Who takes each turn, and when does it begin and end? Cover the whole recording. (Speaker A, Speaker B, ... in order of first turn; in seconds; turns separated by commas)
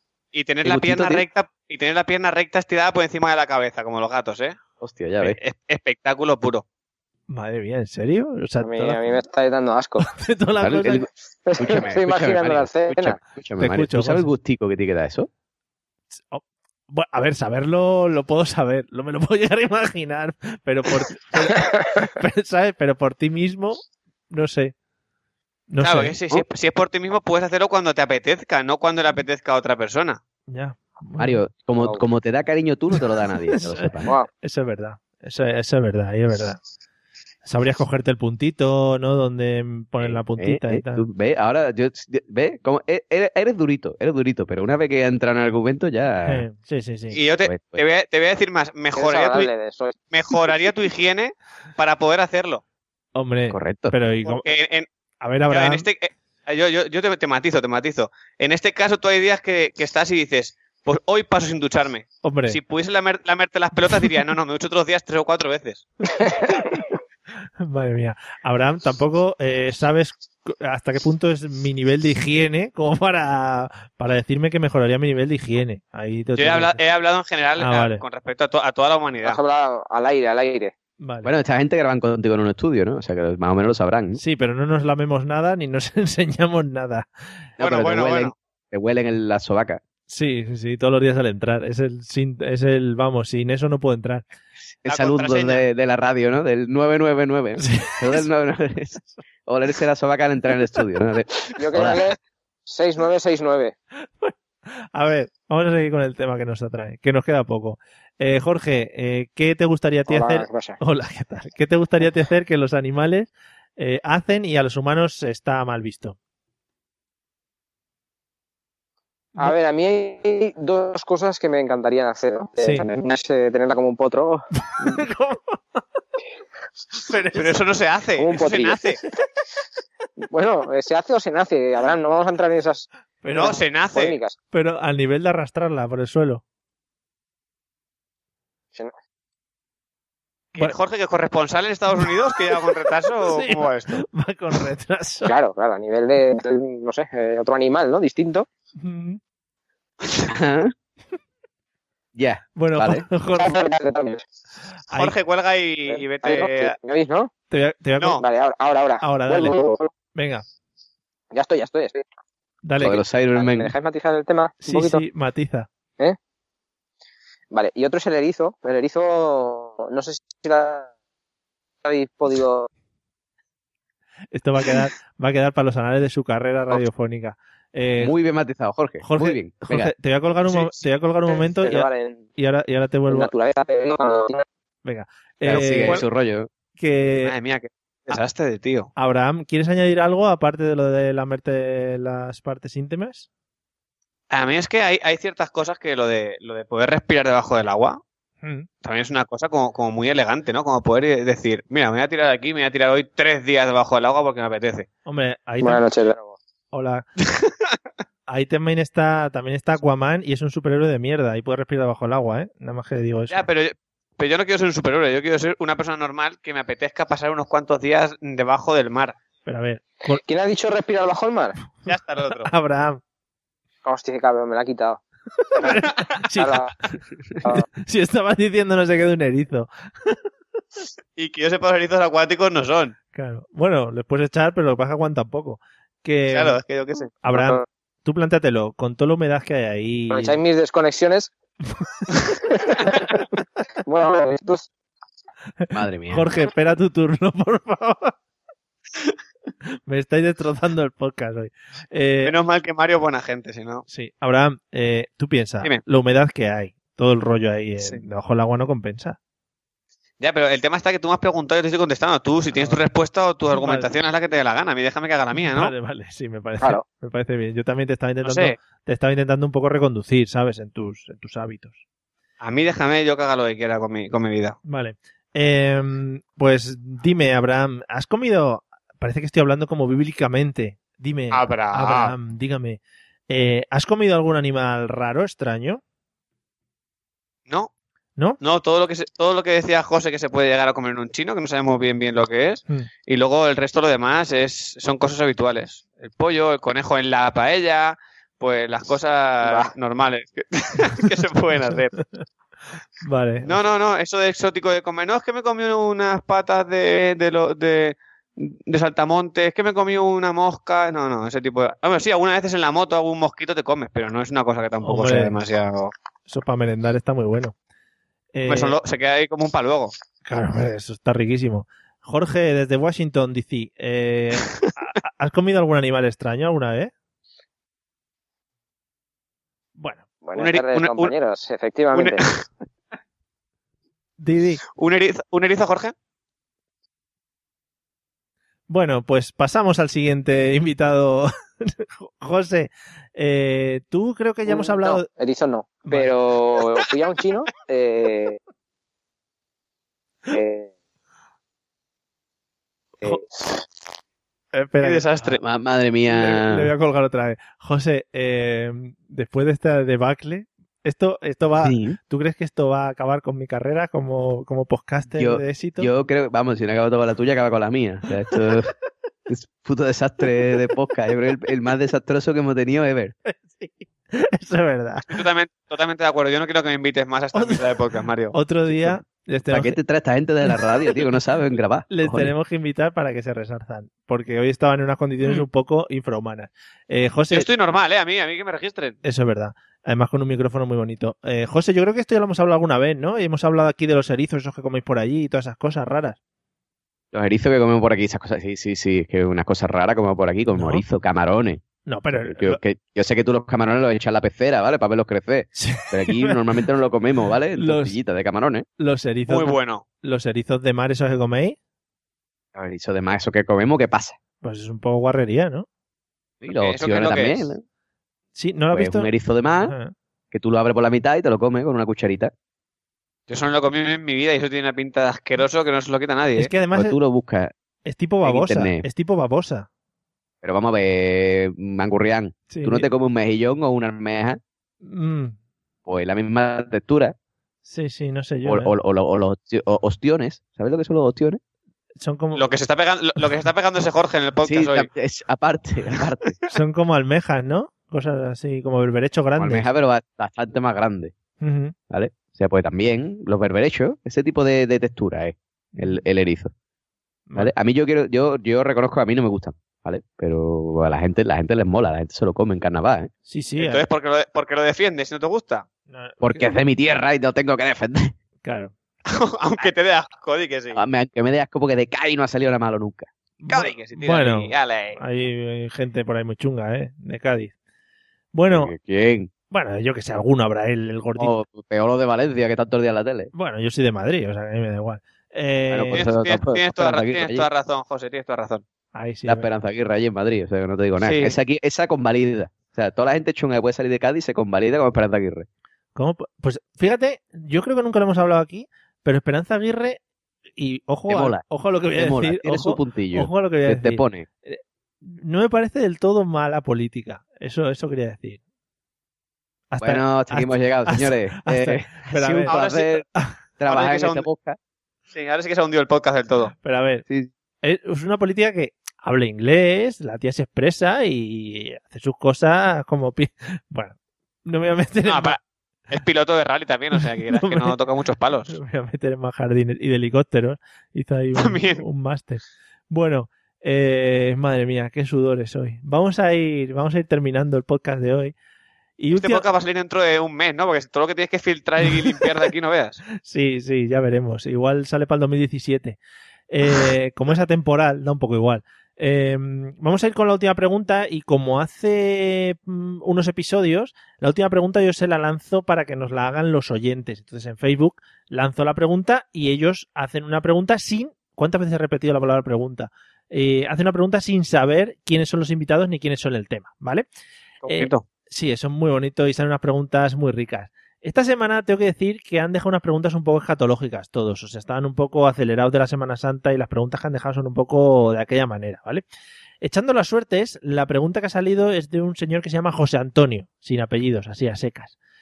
Speaker A: 0.3-4.6, Speaker B: 0.7-1.2, Speaker B: 4.8-5.4, Speaker A: 5.2-6.6, Speaker C: 7.3-9.0, Speaker D: 8.6-10.1, Speaker C: 10.0-11.1, Speaker B: 10.6-15.3, Speaker D: 11.5-13.2, Speaker C: 13.6-14.3, Speaker C: 16.2-24.7, Speaker C: 25.7-26.2, Speaker A: 25.8-30.2, Speaker C: 30.5-31.4, Speaker B: 31.2-34.1, Speaker C: 32.9-36.6, Speaker C: 37.5-41.0, Speaker B: 40.0-46.5, Speaker C: 46.3-47.2, Speaker A: 47.1-49.5, Speaker B: 47.5-47.8, Speaker D: 49.0-50.0, Speaker A: 50.1-52.6, Speaker C: 53.1-54.5, Speaker B: 53.5-54.0, Speaker A: 54.3-54.9, Speaker C: 55.2-55.9, Speaker A: 55.5-65.9, Speaker C: 62.2-62.6, Speaker C: 67.6-76.8, Speaker A: 76.4-79.4, Speaker C: 77.6-78.0, Speaker D: 79.2-80.7, Speaker C: 81.0-81.3, Speaker B: 81.2-84.2, Speaker C: 84.2-87.1, Speaker B: 87.6-89.8, Speaker A: 87.6-88.3, Speaker C: 90.1-94.2, Speaker B: 94.8-102.0, Speaker A: 94.9-95.7, Speaker C: 97.6-98.3, Speaker D: 101.6-103.8, Speaker C: 104.1-104.3, Speaker C: 104.9-116.2, Speaker D: 110.1-110.8, Speaker D: 119.4-125.0, Speaker C: 122.6-122.9, Speaker C: 124.7-125.8, Speaker C: 127.0-127.5, Speaker A: 127.3-129.0, Speaker D: 128.2-128.8, Speaker D: 130.2-134.4, Speaker C: 133.2-133.6, Speaker A: 133.4-134.2, Speaker C: 134.5-136.4, Speaker A: 140.6-144.0, Speaker C: 142.0-142.7, Speaker C: 143.3-145.3, Speaker D: 145.2-148.5, Speaker C: 148.8-149.2, Speaker B: 150.2-150.7, Speaker B: 152.2-153.1, Speaker C: 152.6-153.6, Speaker D: 153.4-154.2, Speaker C: 154.9-155.2, Speaker A: 154.9-156.7, Speaker D: 155.9-157.3, Speaker C: 157.5-158.2, Speaker D: 158.2-159.9, Speaker C: 159.0-159.6, Speaker C: 160.2-160.4, Speaker D: 161.3-162.0, Speaker C: 162.6-163.0, Speaker B: 162.8-163.7, Speaker D: 163.3-165.0, Speaker C: 164.6-165.7, Speaker D: 167.5-170.9, Speaker D: 171.8-172.7, Speaker C: 174.3-178.2, Speaker B: 178.0-179.9, Speaker C: 179.0-183.3, Speaker A: 180.5-180.8, Speaker D: 181.3-182.2, Speaker D: 183.1-184.4, Speaker C: 184.8-186.0, Speaker B: 185.4-186.5, Speaker A: 185.5-186.1, Speaker C: 186.8-187.3, Speaker A: 187.2-188.9, Speaker C: 189.0-193.3, Speaker A: 194.3-198.0, Speaker C: 198.4-198.7, Speaker A: 198.8-204.9, Speaker C: 205.1-205.8, Speaker D: 205.6-206.4, Speaker C: 206.7-207.1, Speaker C: 208.3-213.4, Speaker A: 213.3-219.2, Speaker C: 219.4-220.2, Speaker D: 220.2-221.6, Speaker A: 221.9-222.5, Speaker C: 221.9-223.0, Speaker D: 223.8-225.0, Speaker C: 225.5-226.7, Speaker D: 226.3-226.7, Speaker C: 227.4-230.2, Speaker A: 231.2-232.9, Speaker C: 233.1-236.6, Speaker A: 236.3-237.1, Speaker C: 237.2-240.4, Speaker D: 237.3-237.6, Speaker D: 240.1-241.3, Speaker C: 241.7-242.1, Speaker D: 242.5-243.2, Speaker D: 243.8-244.7, Speaker C: 245.6-248.2, Speaker B: 245.7-246.2, Speaker C: 249.9-252.3, Speaker A: 252.2-253.8, Speaker C: 253.9-259.2, Speaker A: 260.2-265.7, Speaker C: 262.5-262.8, Speaker C: 263.5-263.9, Speaker C: 265.4-271.8, Speaker A: 268.2-268.6, Speaker A: 272.4-274.6, Speaker C: 274.6-285.8, Speaker A: 281.3-282.1, Speaker A: 288.4-302.0, Speaker D: 299.4-299.7, Speaker C: 303.0-303.6, Speaker A: 303.4-315.9, Speaker C: 314.8-315.4, Speaker C: 316.3-317.6, Speaker C: 318.3-318.8, Speaker A: 318.5-319.9, Speaker C: 320.2-326.9, Speaker C: 329.8-330.1, Speaker D: 330.2-332.2, Speaker A: 330.4-331.1, Speaker A: 331.9-332.4, Speaker C: 334.2-334.6, Speaker A: 334.8-335.9, Speaker C: 338.7-345.1, Speaker D: 344.5-348.4, Speaker C: 345.9-346.1, Speaker D: 350.3-350.7, Speaker D: 353.0-353.5, Speaker C: 354.5-355.4, Speaker A: 354.8-355.4, Speaker B: 355.4-356.7, Speaker C: 356.1-365.9, Speaker B: 361.6-362.0, Speaker B: 365.1-368.7, Speaker C: 368.3-368.6, Speaker B: 369.3-373.1, Speaker C: 373.3-375.2, Speaker A: 375.1-378.4, Speaker C: 377.4-377.7, Speaker C: 378.3-379.8, Speaker B: 379.5-382.3, Speaker C: 380.4-380.9, Speaker C: 381.9-387.5, Speaker A: 387.3-389.0, Speaker C: 389.0-396.2, Speaker B: 397.1-401.6, Speaker C: 400.6-400.8, Speaker C: 401.9-402.6, Speaker B: 402.1-408.7, Speaker C: 405.6-406.4, Speaker C: 407.6-408.0, Speaker C: 408.8-411.6, Speaker A: 409.3-409.8, Speaker B: 412.6-414.2, Speaker C: 414.4-415.7, Speaker B: 416.4-417.6, Speaker A: 416.5-417.5, Speaker C: 418.4-419.9, Speaker B: 418.7-419.7, Speaker B: 420.3-422.3, Speaker A: 423.3-426.5, Speaker C: 426.4-427.0, Speaker B: 426.7-427.5, Speaker C: 427.9-429.7, Speaker B: 428.2-428.8, Speaker B: 430.4-434.4, Speaker C: 432.5-432.9, Speaker C: 434.8-435.4, Speaker B: 435.9-437.1, Speaker C: 437.7-438.7, Speaker B: 438.4-441.4, Speaker C: 442.0-442.5, Speaker A: 442.4-444.9, Speaker B: 444.4-446.4, Speaker C: 446.5-449.7, Speaker B: 449.4-451.1, Speaker C: 451.4-451.8, Speaker B: 451.9-456.5, Speaker C: 455.8-456.0, Speaker C: 457.3-457.5, Speaker B: 457.4-463.1, Speaker C: 463.3-463.9, Speaker A: 463.6-465.7, Speaker C: 465.9-466.5, Speaker B: 466.2-468.1, Speaker C: 468.4-468.7, Speaker A: 469.1-470.8, Speaker B: 470.7-473.1, Speaker C: 473.4-477.5, Speaker A: 473.5-475.0, Speaker C: 478.3-478.7, Speaker B: 478.5-479.3, Speaker C: 479.5-481.4, Speaker B: 481.2-483.3, Speaker C: 483.3-486.0, Speaker B: 485.7-487.5, Speaker A: 485.9-488.6, Speaker C: 488.9-489.5, Speaker B: 489.2-495.5, Speaker A: 491.0-491.4, Speaker C: 496.0-500.0, Speaker C: 500.6-508.4, Speaker B: 501.1-501.4, Speaker B: 502.0-504.3, Speaker C: 509.7-512.5, Speaker B: 509.8-513.0, Speaker A: 512.5-513.0, Speaker B: 513.6-514.6, Speaker A: 513.7-514.3, Speaker A: 515.1-516.5, Speaker C: 516.6-517.0, Speaker C: 517.6-525.4, Speaker A: 525.0-528.6, Speaker C: 526.9-527.8, Speaker C: 528.5-538.4, Speaker A: 531.4-531.8, Speaker C: 539.0-539.5, Speaker A: 539.1-543.0, Speaker C: 541.9-542.1, Speaker C: 543.2-546.0, Speaker C: 546.5-567.1, Speaker A: 567.6-568.0, Speaker C: 567.7-579.0, Speaker C: 579.6-585.0